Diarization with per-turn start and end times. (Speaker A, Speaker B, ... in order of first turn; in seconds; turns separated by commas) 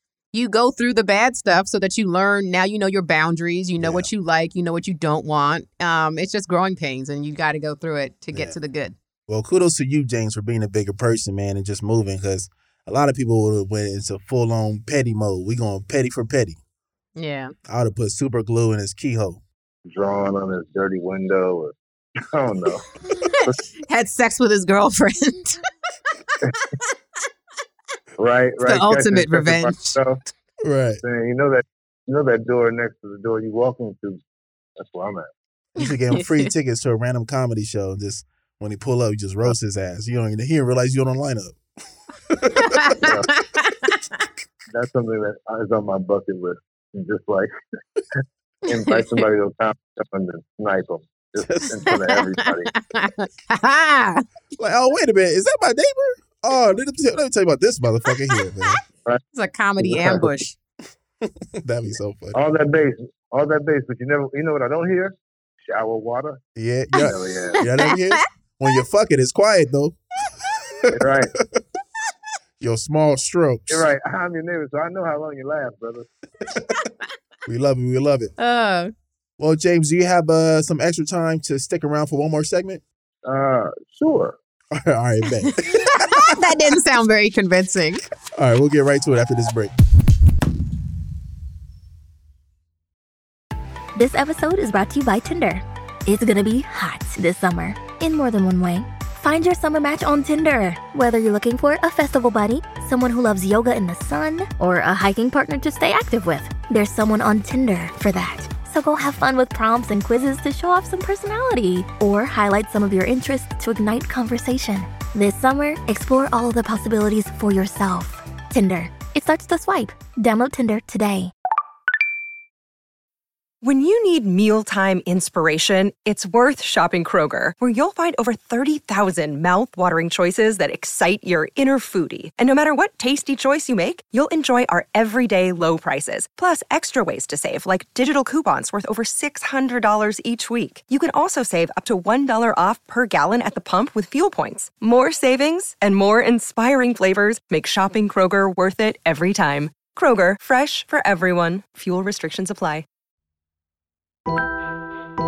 Speaker A: 0.3-8.9, Speaker B: 3.8-4.1, Speaker B: 9.3-16.6, Speaker A: 17.1-17.5, Speaker B: 17.6-19.4, Speaker C: 19.9-22.9, Speaker A: 23.1-25.6, Speaker A: 26.5-26.9, Speaker C: 28.2-30.2, Speaker A: 28.6-30.0, Speaker B: 30.6-31.0, Speaker C: 31.0-34.2, Speaker C: 34.8-35.3, Speaker B: 35.8-41.6, Speaker A: 35.8-36.5, Speaker B: 42.3-43.0, Speaker A: 42.6-44.2, Speaker C: 43.0-43.3, Speaker C: 44.7-47.5, Speaker A: 48.7-49.2, Speaker C: 48.7-52.7, Speaker B: 51.4-51.9, Speaker A: 51.9-54.2, Speaker B: 54.6-58.8, Speaker A: 59.3-60.5, Speaker C: 59.8-60.3, Speaker B: 61.2-62.4, Speaker C: 62.3-66.4, Speaker B: 66.5-71.6, Speaker A: 67.0-68.2, Speaker C: 67.0-67.6, Speaker C: 70.9-71.3, Speaker B: 72.6-73.9, Speaker C: 73.7-76.1, Speaker B: 77.5-78.3, Speaker A: 78.4-78.9, Speaker B: 79.4-82.8, Speaker C: 83.2-84.3, Speaker B: 84.7-86.4, Speaker A: 85.3-88.0, Speaker B: 88.3-89.7, Speaker D: 94.0-121.3, Speaker E: 123.6-152.8